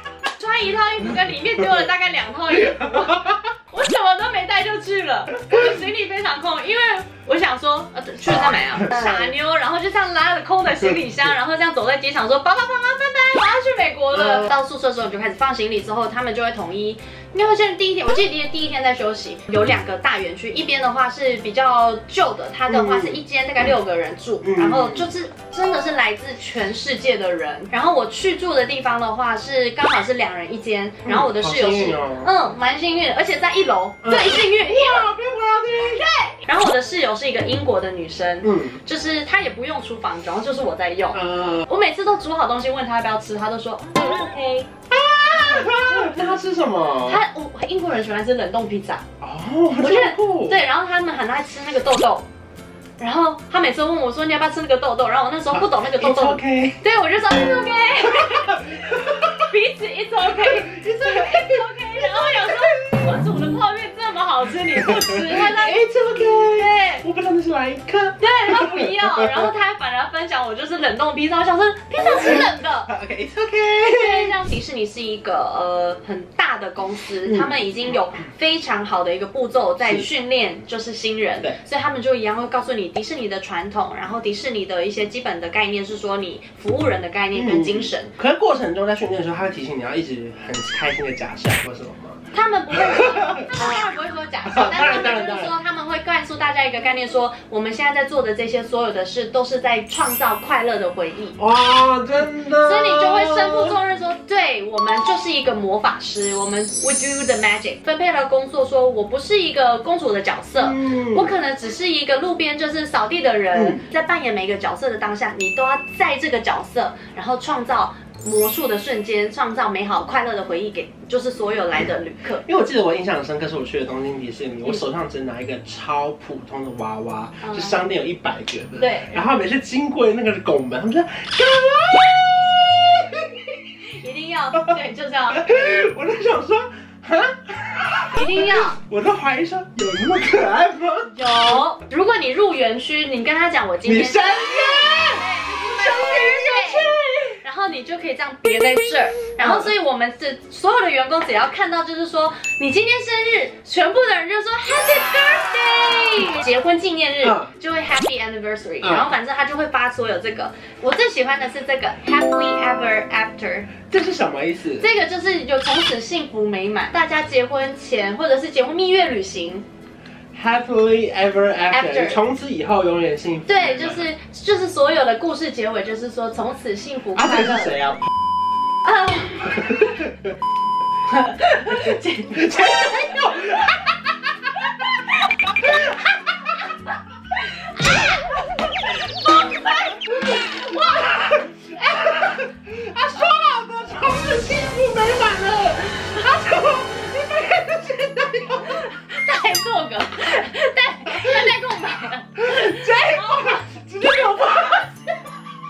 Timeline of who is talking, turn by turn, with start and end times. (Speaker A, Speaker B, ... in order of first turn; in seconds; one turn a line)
Speaker A: 0.4-35.1
Speaker B: 2.7-3.3
Speaker B: 8.8-9.3
Speaker B: 14.1-14.5
Speaker B: 22.7-23.2
Speaker B: 24.4-25.1
Speaker B: 31.1-32.3
Speaker B: 34.0-36.2
Speaker A: 36.3-44.7
Speaker B: 38.4-38.8
Speaker B: 41.1-41.7
Speaker B: 44.9-47.2
Speaker A: 45.3-46.3
Speaker A: 47.0-49.0
Speaker B: 49.2-50.6
Speaker A: 49.8-52.3
Speaker A: 53.0-65.8
Speaker B: 55.5-56.8
Speaker B: 58.2-59.3
Speaker B: 60.3-63.1
Speaker B: 64.8-69.5
Speaker A: 66.3-67.0
Speaker A: 68.2-72.9
Speaker B: 72.1-74.3
Speaker A: 73.8-88.1
Speaker B: 77.3-77.5
Speaker B: 87.3-93.4
Speaker A: 92.3-101.4
Speaker B: 94.5-95.5
Speaker B: 101.4-103.8
Speaker A: 102.6-122.5
Speaker B: 110.6-111.3
Speaker B: 113.5-113.8
Speaker B: 122.5-133.6
Speaker A: 127.4-127.8
Speaker A: 128.8-129.2
Speaker A: 134.0-135.5
Speaker B: 135.3-141.4
Speaker A: 138.1-138.8
Speaker A: 141.1-146.9
Speaker B: 143.8-147.4
Speaker A: 147.4-163.7
Speaker B: 149.4-149.7
Speaker B: 157.2-157.5
Speaker B: 158.8-159.1
Speaker B: 163.9-164.9
Speaker A: 164.8-169.7
Speaker B: 170.3-174.1
Speaker A: 171.7-172.2
Speaker A: 173.5-177.8
Speaker B: 177.2-178.1
Speaker A: 178.8-180.1
Speaker A: 181.1-183.3
Speaker B: 182.3-184.0
Speaker B: 185.5-186.4
Speaker A: 187.5-191.2
Speaker B: 190.1-198.8
Speaker A: 191.8-192.3
Speaker A: 198.6-203.7
Speaker B: 201.1-201.4
Speaker B: 202.4-204.9